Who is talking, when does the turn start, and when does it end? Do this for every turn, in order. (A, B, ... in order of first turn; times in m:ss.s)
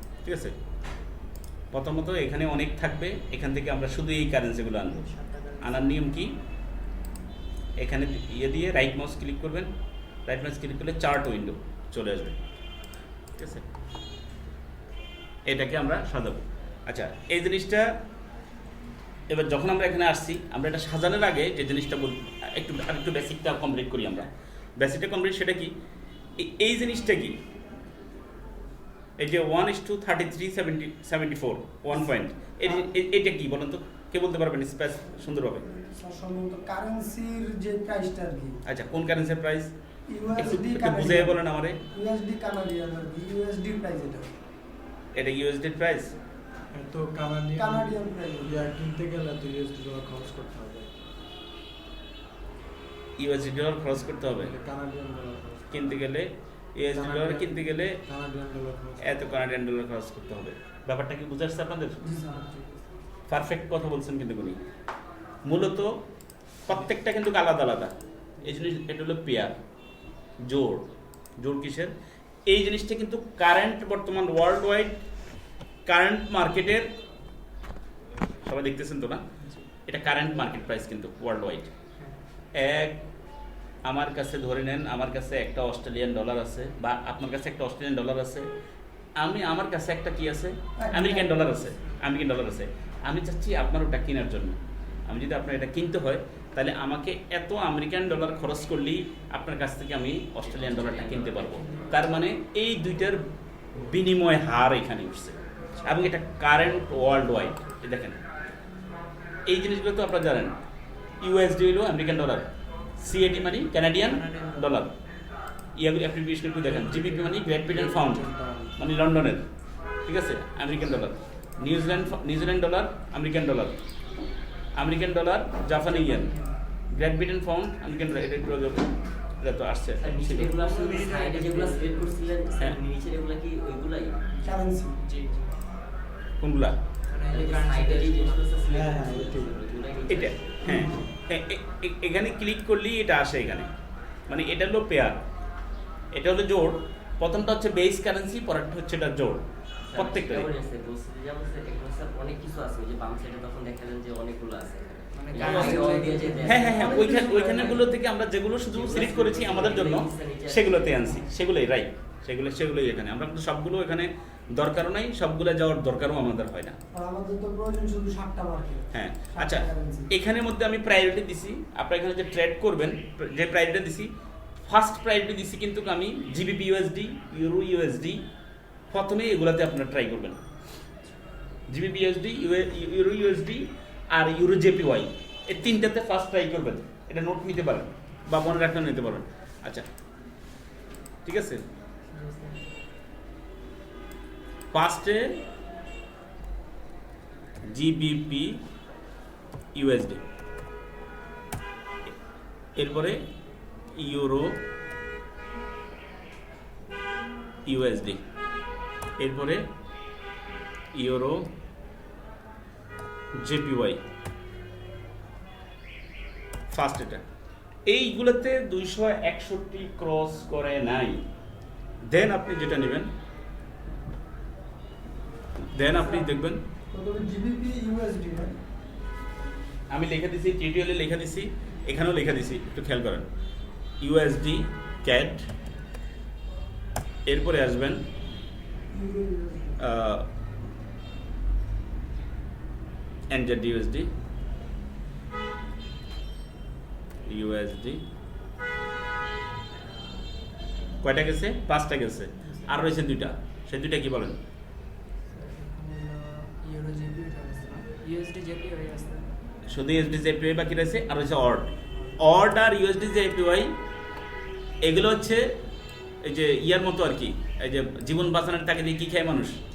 0:00.2-0:00.5 A
0:01.7-0:05.1 A
0:04.9-0:06.0 B
0:05.6-0:06.4 A
0:07.8-0:09.7 A
0:10.2-0:12.4 A
0:13.4-0:13.6 A
0:15.5-0:17.8 A
0:19.3-0:25.7 A
0:26.4-0:27.4 A
0:29.2-0:35.6 A
0:32.6-0:32.9 C
0:35.3-0:38.6 C
0:38.6-0:39.7 A
0:40.1-0:44.3 C
0:40.3-0:41.8 A
0:45.1-0:46.1 A
0:46.7-0:51.0 D
0:47.6-0:48.6 C
0:53.2-0:54.5 A
0:54.2-0:56.1 D
0:55.7-0:58.0 A
0:56.9-0:59.4 D
0:59.0-1:02.0 A
1:02.0-1:02.6 C
1:02.3-1:02.8 B
1:03.3-1:04.6 A
1:05.4-1:06.0 A
1:06.6-1:09.5 A
1:10.4-1:11.9 A
1:12.5-1:15.0 A
1:15.9-1:16.9 A
1:18.4-1:19.2 A
1:19.9-1:21.7 A
1:22.5-1:23.0 A
1:23.8-1:28.5 A
1:29.2-1:48.2 A
1:30.8-1:31.8 C
1:40.4-1:42.0 E
1:41.6-1:42.0 B
1:45.6-1:46.1 B
1:47.3-1:47.6 B
1:49.5-1:50.5 A
1:51.2-1:52.4 A
1:53.0-1:54.9 A
1:54.0-1:54.8 B
1:55.8-1:59.4 A
1:56.6-1:57.4 B
1:56.7-1:58.8 D
2:00.1-2:03.8 A
2:04.8-2:06.3 A
2:05.6-2:06.6 B
2:06.9-2:08.9 A
2:09.4-2:10.5 A
2:10.0-2:14.2 E
2:10.4-2:12.3 B
2:14.3-2:15.6 B
2:14.4-2:15.0 C
2:16.4-2:16.8 A
2:17.1-2:18.5 B
2:17.3-2:20.8 E
2:18.7-2:20.0 D
2:20.1-2:23.7 A
2:20.6-2:21.0 C
2:20.8-2:21.0 D
2:24.3-2:25.2 A
2:26.1-2:29.4 A
2:29.9-2:37.9 E
2:29.9-2:30.5 A
2:35.1-2:36.9 B
2:35.4-2:46.7 A
2:36.8-2:37.8 C
2:38.7-2:41.2 E
2:46.9-2:50.1 C
2:48.9-2:54.1 A
2:54.6-2:58.2 A
2:58.9-3:00.4 A
3:01.7-3:09.8 A
3:11.2-3:11.6 A
3:12.1-3:12.6 B
3:14.7-3:15.4 A
3:17.7-3:18.6 A
3:19.7-3:20.2 A
3:22.8-3:23.2 A
3:23.9-3:24.6 A
3:27.6-3:28.2 A
3:29.2-3:29.6 A
3:30.9-3:31.5 A
3:33.4-3:34.0 A
3:36.7-3:37.2 A
3:37.9-3:41.2 A
3:42.1-3:43.1 A
3:45.7-3:46.6 A
3:45.8-3:46.3 C
3:46.9-3:48.5 C
3:49.9-3:53.3 A
3:54.0-3:55.5 A
3:57.2-3:58.0 A
3:58.9-3:59.9 C
3:59.8-4:00.3 A
4:03.3-4:04.1 A
4:07.2-4:08.0 A
4:11.0-4:14.4 A
4:12.4-4:12.8 B
4:15.3-4:19.3 B
4:19.7-4:23.7 A
4:21.9-4:22.2 B
4:24.8-4:25.4 A
4:26.2-4:29.6 A